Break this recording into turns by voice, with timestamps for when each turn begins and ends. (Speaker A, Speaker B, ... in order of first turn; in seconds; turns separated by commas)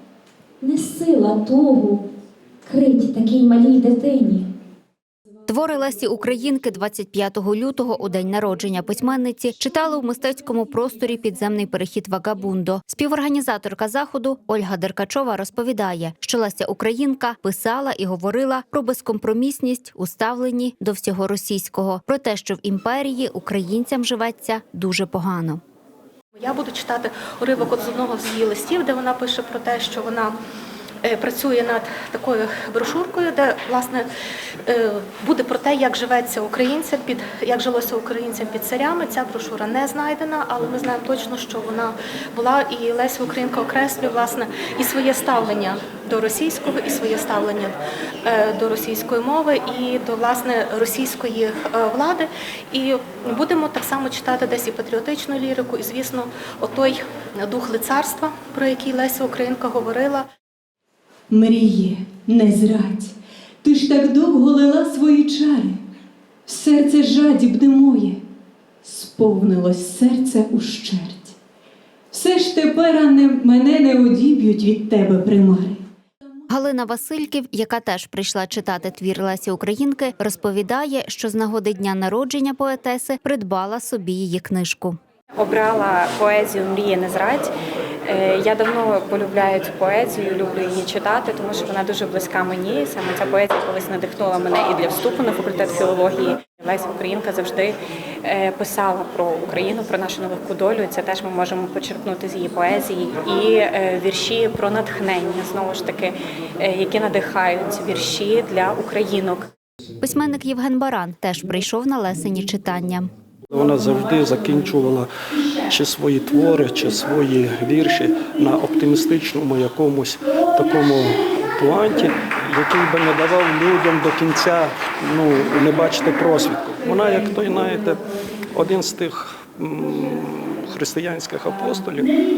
Speaker A: 0.6-2.0, Speaker A: 2.6-4.4, Speaker B: 5.5-25.6, Speaker C: 26.4-30.3, Speaker C: 31.0-34.1, Speaker C: 34.6-60.2, Speaker D: 61.3-65.8, Speaker D: 66.5-68.2, Speaker D: 68.8-71.4, Speaker D: 72.1-75.8, Speaker B: 76.5-85.0, Speaker E: 85.4-87.5, Speaker E: 88.0-109.5, Speaker B: 110.0-113.1, Speaker F: 113.5-132.2